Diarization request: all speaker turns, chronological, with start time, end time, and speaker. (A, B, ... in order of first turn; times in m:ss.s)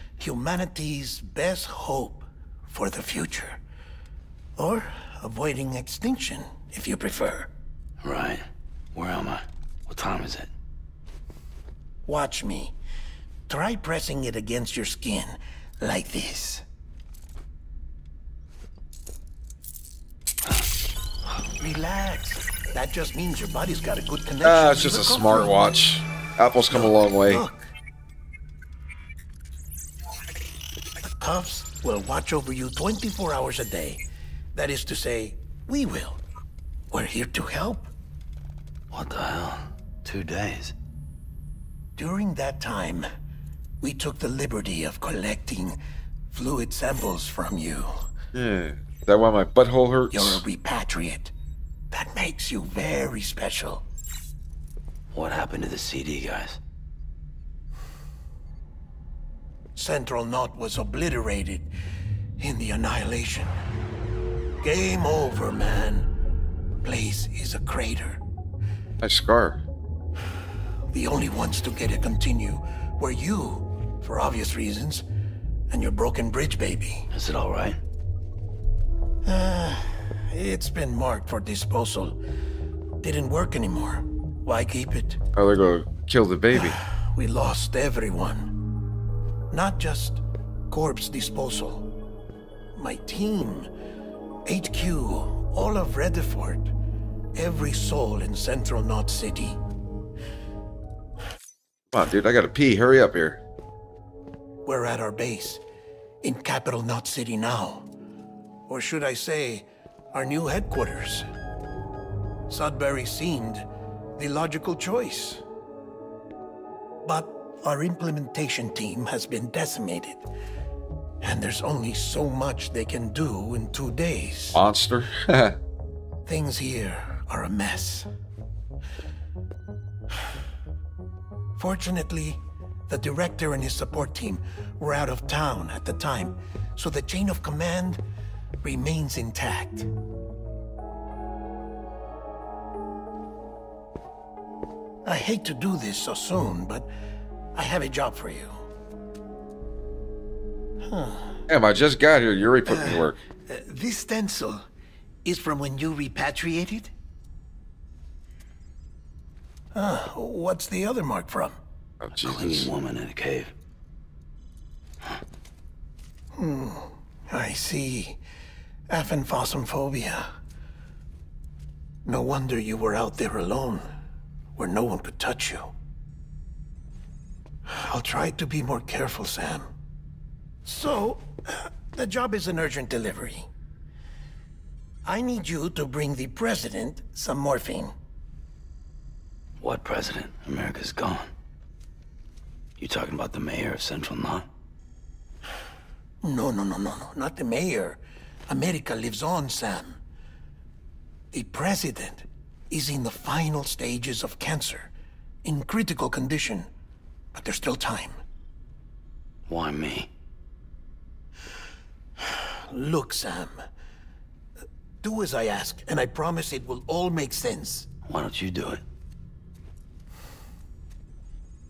0:00.2-0:03.6 A
0:04.6-0:07.5 A
0:08.0-0:10.5 B
0:12.1-0:12.8 A
0:13.5-0:16.6 A
0:21.6-0:25.7 A
0:24.4-0:27.4 C
0:26.7-0:27.7 A
0:31.2-0:34.0 A
0:34.6-0:36.2 A
0:36.9-0:37.9 A
0:38.9-0:40.8 B
0:42.0-0:43.1 A
0:43.8-0:45.8 A
0:46.3-0:48.0 A
0:48.3-0:50.4 C
0:50.1-0:51.3 A
0:51.9-0:53.8 A
0:55.1-0:56.6 B
0:59.8-1:01.7 A
1:02.4-1:03.5 A
1:04.6-1:06.1 A
1:06.8-1:08.2 A
1:09.0-1:09.6 C
1:10.9-1:15.0 A
1:15.7-1:17.1 A
1:17.1-1:17.8 B
1:19.2-1:22.2 A
1:23.0-1:25.2 A
1:25.4-1:26.8 C
1:26.5-1:28.5 A
1:29.5-1:31.9 A
1:32.8-1:33.7 A
1:34.5-1:36.7 A
1:37.4-1:39.6 A
1:41.9-1:43.4 C
1:44.6-1:45.6 A
1:46.2-1:47.9 A
1:48.7-1:51.3 A
1:52.5-1:53.7 A
1:54.2-1:55.4 A
1:57.0-2:00.2 A
2:01.2-2:04.6 A
2:04.5-2:05.6 C
2:06.2-2:08.1 A
2:11.6-2:18.0 A
2:18.6-2:19.9 A
2:25.0-2:26.9 A
2:27.6-2:28.5 A
2:30.8-2:31.4 A
2:31.5-2:33.2 C
2:32.7-2:34.6 A
2:35.2-2:36.9 A
2:39.7-2:41.6 A
2:42.0-2:42.7 C
2:42.2-2:43.5 B
2:46.4-2:48.2 A
2:48.9-2:50.3 A
2:52.0-2:53.8 A
2:54.6-2:55.7 A
2:57.7-2:59.7 A
3:00.6-3:03.5 A
3:05.0-3:07.9 A
3:09.6-3:11.3 B
3:12.8-3:14.5 B
3:16.2-3:20.0 A
3:21.3-3:24.9 A
3:25.4-3:26.7 A
3:27.3-3:28.2 A
3:29.5-3:30.1 B
3:32.3-3:33.6 A
3:35.0-3:37.9 A
3:38.1-3:38.8 B